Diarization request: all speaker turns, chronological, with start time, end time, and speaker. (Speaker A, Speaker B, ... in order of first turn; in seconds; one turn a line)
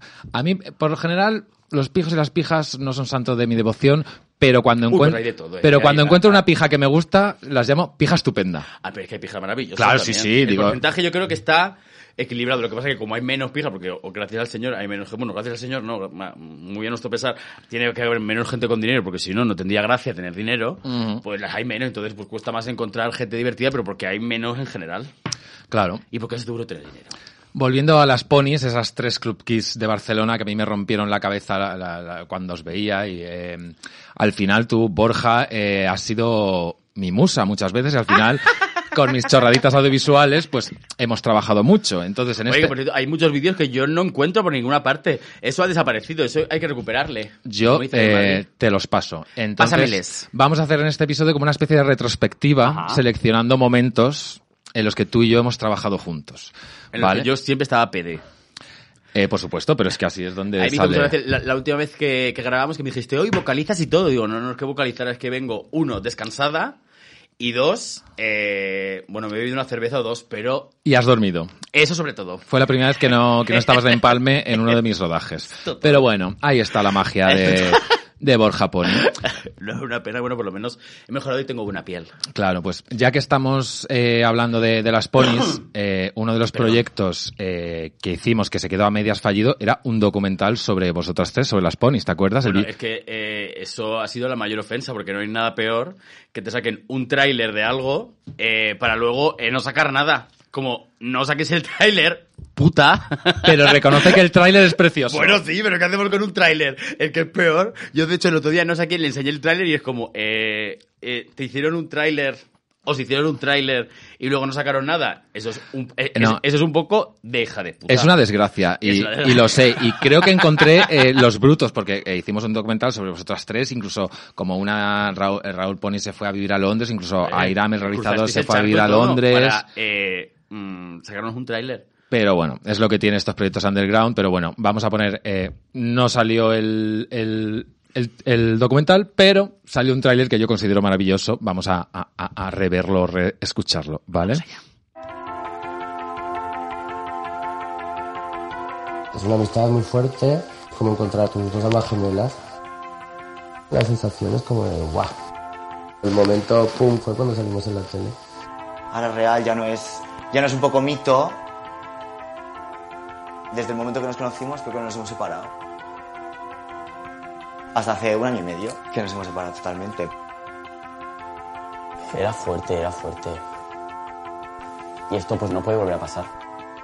Speaker A: 0.3-8.7
Speaker B: 4.9-6.4
Speaker B: 8.8-25.1
Speaker A: 9.8-10.8
Speaker A: 20.8-21.2
Speaker A: 25.7-26.0
Speaker B: 26.1-27.1
Speaker A: 27.5-42.7
Speaker B: 42.5-48.4
Speaker A: 47.4-57.3
Speaker B: 49.6-50.3
Speaker B: 52.6-53.0
Speaker B: 56.9-58.2
Speaker A: 59.1-61.1
Speaker B: 60.6-66.8
Speaker B: 67.4-70.7
Speaker A: 70.8-71.5
Speaker B: 71.7-72.4
Speaker A: 72.5-79.1
Speaker B: 73.5-74.0
Speaker B: 75.5-76.1
Speaker B: 77.2-77.8
Speaker B: 78.9-82.1
Speaker A: 82.3-92.7
Speaker B: 86.5-86.8
Speaker B: 92.4-104.2
Speaker A: 103.4-105.4
Speaker B: 105.1-118.1
Speaker A: 116.1-116.4
Speaker A: 117.9-129.6
Speaker B: 118.8-120.9
Speaker B: 127.2-131.8
Speaker A: 132.1-144.4
Speaker C: 149.1-152.3
Speaker C: 153.7-155.1
Speaker C: 156.0-158.1
Speaker D: 158.9-161.4
Speaker D: 163.5-165.5
Speaker D: 167.7-170.1
Speaker E: 172.1-173.4
Speaker E: 175.1-176.3